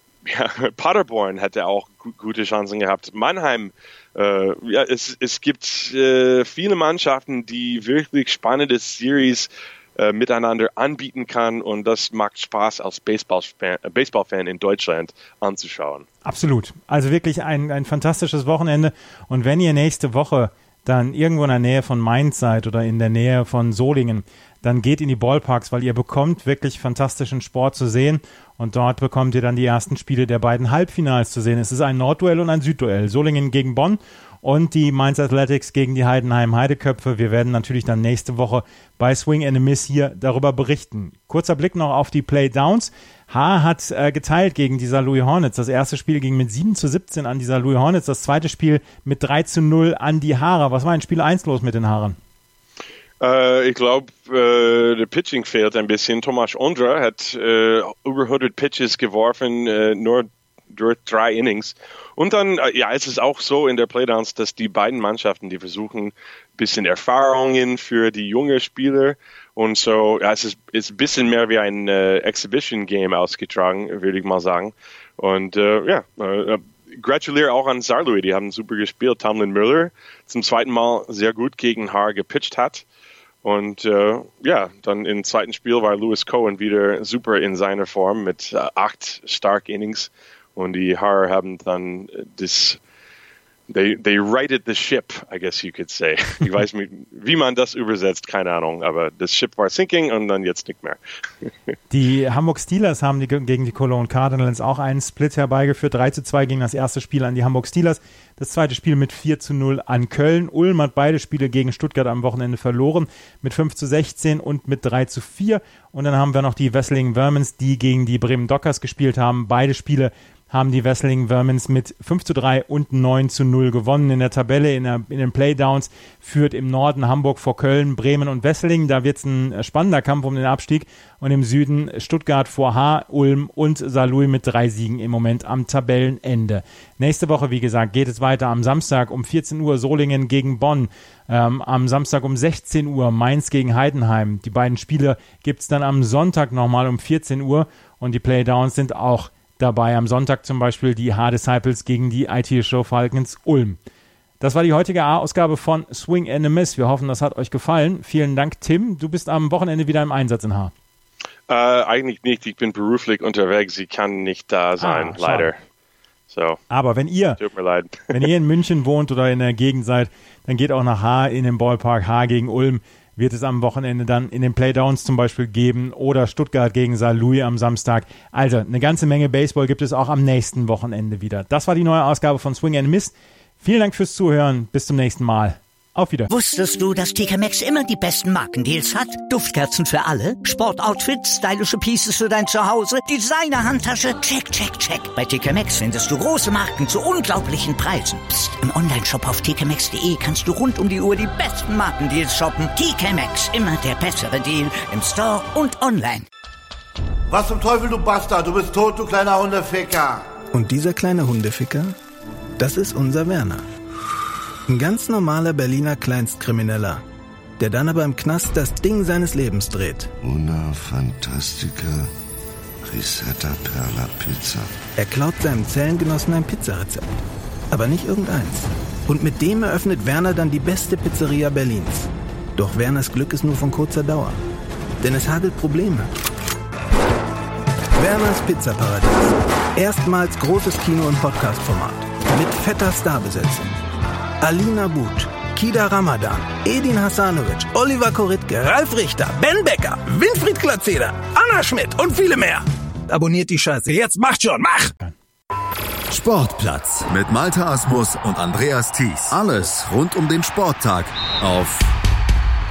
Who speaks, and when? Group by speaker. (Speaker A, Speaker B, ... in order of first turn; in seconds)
Speaker A: 0.2-16.1, 53.2-82.8, 83.4-92.8, 93.7-101.5, 161.5-165.6, 166.3-166.6, 167.4-168.1
Speaker B: 16.2-52.2, 101.9-153.8, 154.4-160.7, 164.8-165.5, 166.7-167.4, 168.1-186.3
Speaker C: 186.3-206.3
Speaker D: 207.3-210.3
Speaker E: 210.5-211.9, 212.6-213.7, 214.7-217.0, 217.6-220.1, 225.0-227.1, 227.7-234.4, 235.0-236.1, 238.0-243.7, 244.4-254.9
Speaker F: 220.2-222.1, 222.8-224.7
Speaker G: 256.1-262.0